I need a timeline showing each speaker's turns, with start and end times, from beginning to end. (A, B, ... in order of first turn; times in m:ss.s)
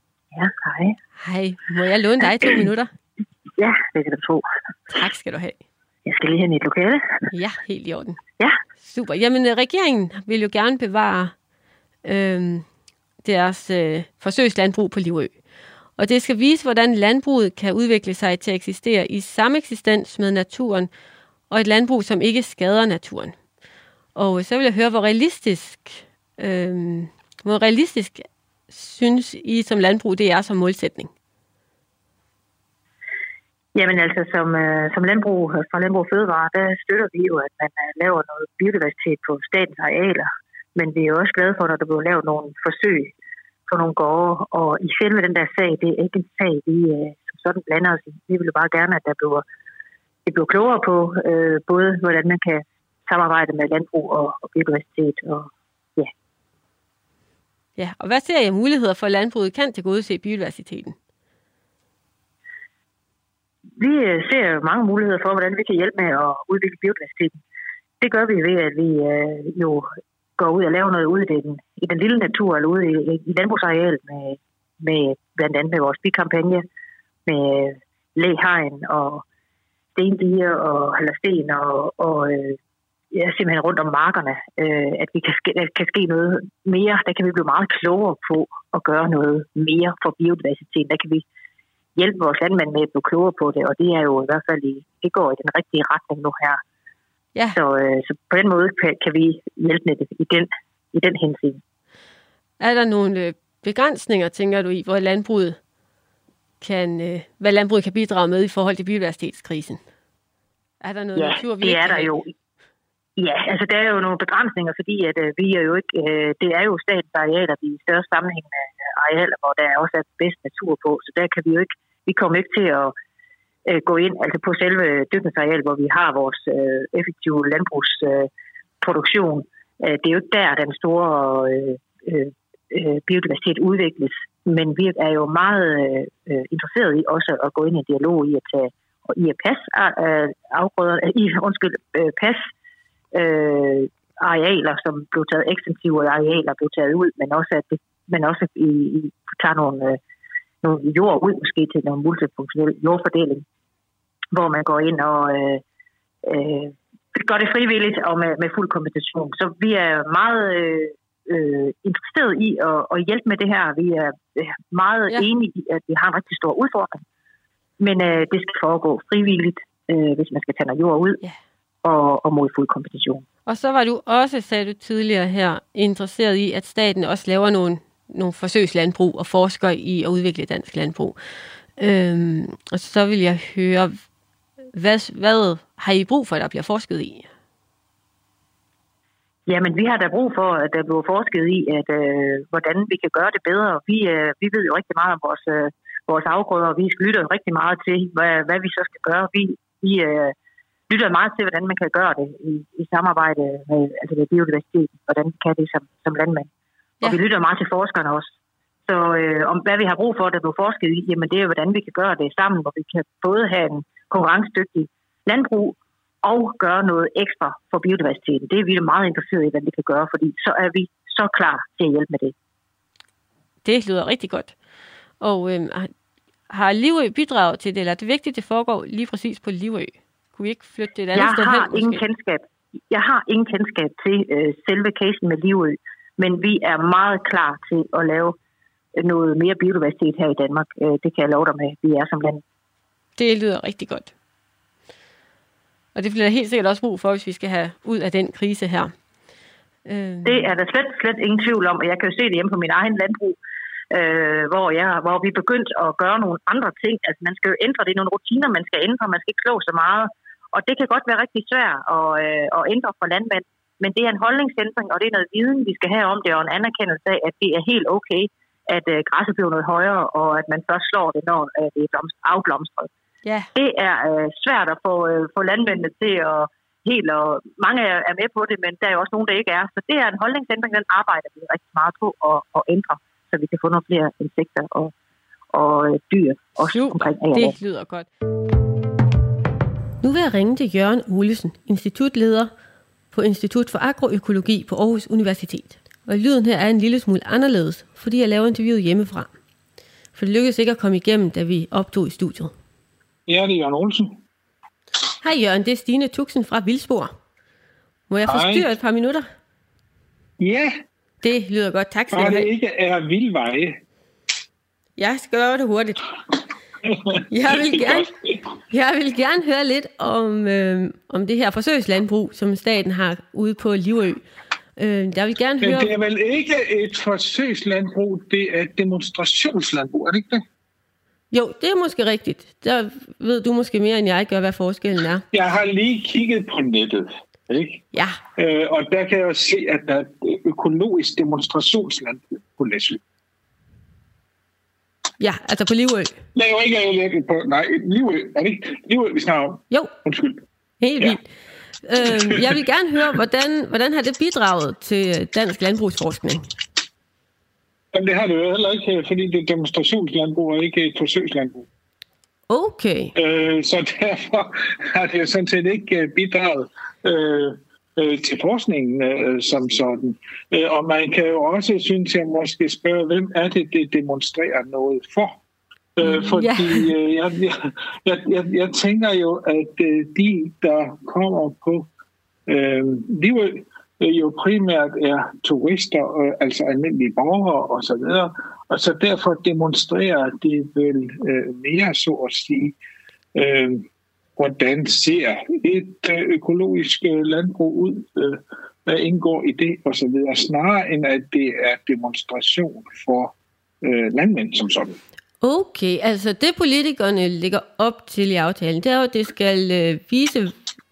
0:00.3-0:01.0 A
0:01.2-0:02.9 B
0:02.3-0:02.6 A
0:03.6-0:04.4 A
0:04.9-0:05.6 B
0:06.1-0:07.0 A
0:07.3-0:08.2 B
0:08.8-0:11.3 B
0:12.0-0:12.6 B
0:13.2-0:15.3 B
0:16.0-0:20.9 B
0:21.5-0:23.4 B
0:24.2-0:31.1 B
0:33.8-0:43.1 A
0:43.7-0:49.4 A
0:50.3-0:56.1 A
0:57.8-1:01.0 B
1:03.8-1:07.4 A
1:08.0-1:09.9 A
1:10.4-1:16.6 A
1:17.3-1:19.2 A
1:20.0-1:22.6 A
1:23.1-1:31.2 A
1:32.0-1:36.6 A
1:37.5-1:41.6 A
1:42.6-1:45.6 B
1:46.6-1:49.8 B
1:50.8-1:52.1 B
1:51.2-1:52.3 A
1:53.2-2:02.9 A
2:03.7-2:08.3 A
2:08.8-2:22.5 A
2:23.1-2:30.0 A
2:30.6-2:33.4 A
2:34.3-2:35.6 A
2:36.2-2:47.0 A
2:47.8-2:51.2 A
2:51.8-2:53.2 A
2:53.5-3:01.2 B
3:01.8-3:04.0 B
3:04.8-3:07.3 B
3:09.5-3:20.4 A
3:20.9-3:26.5 A
3:27.0-3:28.3 A
3:28.9-3:42.3 A
3:43.6-3:44.5 B
3:45.2-3:45.9 B
3:46.5-3:52.0 B
3:51.1-3:58.4 A
3:59.0-4:02.4 A
4:03.2-4:04.1 B
4:06.0-4:08.9 B
4:09.9-4:10.5 B
4:10.2-4:13.4 A
4:13.9-4:32.9 A
4:33.2-4:33.5 B
4:33.6-4:44.9 A
4:45.5-4:47.6 A
4:46.6-4:48.1 B
4:50.0-4:52.5 B
4:53.1-4:59.3 B
5:00.2-5:02.5 B
5:03.3-5:04.2 C
5:05.2-5:07.1 B
5:08.1-5:09.3 B
5:08.3-5:08.7 C
5:10.4-5:10.8 C
5:11.2-5:12.5 B
5:12.1-5:13.8 C
5:15.0-5:16.1 B
5:16.9-5:18.4 C
5:17.3-5:18.1 B
5:18.7-5:24.2 B
5:24.8-5:25.9 B
5:25.6-5:30.4 C
5:31.3-5:35.2 B
5:35.3-5:37.8 C
5:37.9-5:38.2 B
5:38.4-5:43.0 C
5:45.2-5:46.2 B
5:46.4-5:50.4 C
5:50.8-5:51.2 B
5:51.8-5:56.5 B
5:52.1-5:52.5 C
5:57.9-6:01.7 C
6:02.5-6:03.1 B
6:03.2-6:15.4 C
6:16.0-6:21.9 C
6:16.0-6:16.9 B
6:22.5-6:32.8 C
6:33.4-6:33.9 C
6:34.4-6:45.0 C
6:45.4-6:50.5 B